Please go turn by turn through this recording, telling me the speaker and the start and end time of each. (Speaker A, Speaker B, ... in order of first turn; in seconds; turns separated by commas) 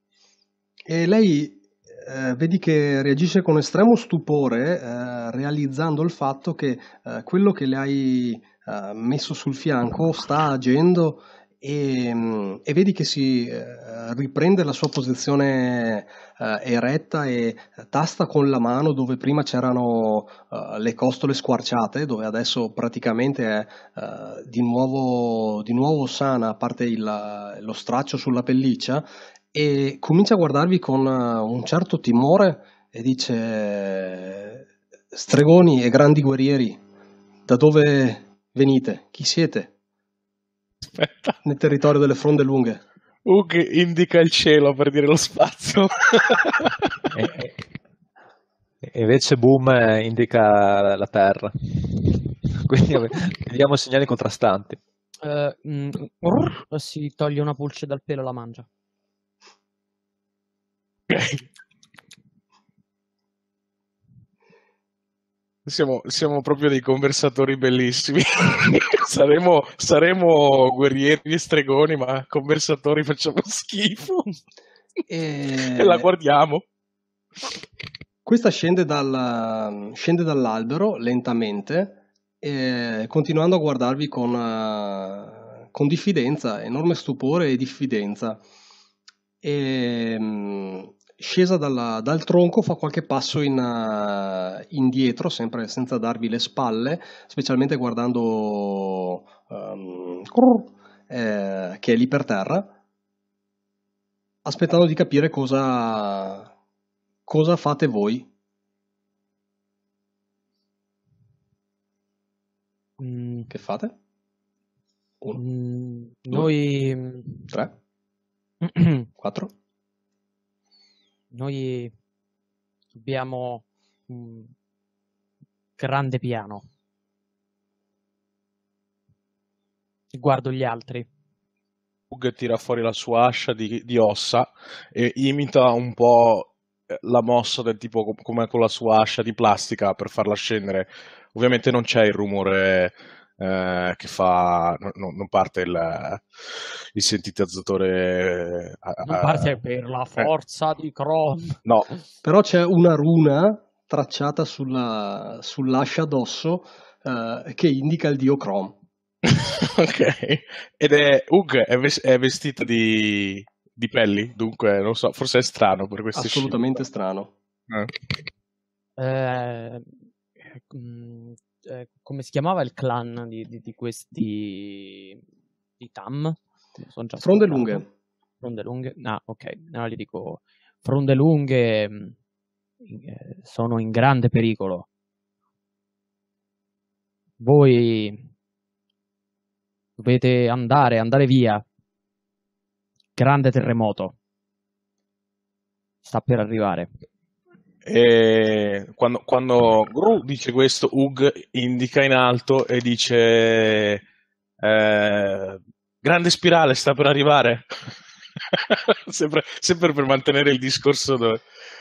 Speaker A: 0.9-36.8, Speaker A: 37.5-39.7, Speaker B: 41.0-41.3, Speaker A: 41.4-42.8, Speaker B: 43.2-46.8, Speaker C: 47.1-47.5, Speaker C: 48.8-54.8, Speaker D: 55.2-58.6, Speaker B: 61.1-61.4, Speaker B: 65.7-74.3, Speaker A: 75.1-76.1, Speaker B: 75.6-76.6, Speaker A: 78.2-88.4, Speaker A: 89.4-102.7, Speaker A: 104.4-106.5, Speaker A: 107.3-108.3, Speaker D: 113.0-113.5, Speaker A: 113.5-113.9, Speaker D: 115.3-117.5, Speaker D: 118.6-119.1, Speaker A: 119.2-119.5, Speaker D: 121.3-121.9, Speaker D: 122.9-124.5, Speaker D: 125.8-126.7, Speaker D: 130.1-131.1, Speaker B: 132.1-149.6, Speaker D: 149.0-151.6, Speaker B: 151.7-151.9, Speaker A: 152.2-158.8, Speaker B: 159.3-166.8, Speaker A: 166.1-167.3, Speaker D: 169.0-175.2, Speaker D: 175.8-177.8, Speaker A: 177.2-177.8, Speaker D: 178.4-182.2, Speaker D: 182.8-184.8, Speaker D: 187.4-188.3, Speaker D: 190.0-191.6, Speaker D: 193.2-194.1, Speaker D: 196.0-196.9, Speaker B: 197.8-204.0, Speaker B: 204.6-207.6, Speaker B: 208.5-211.4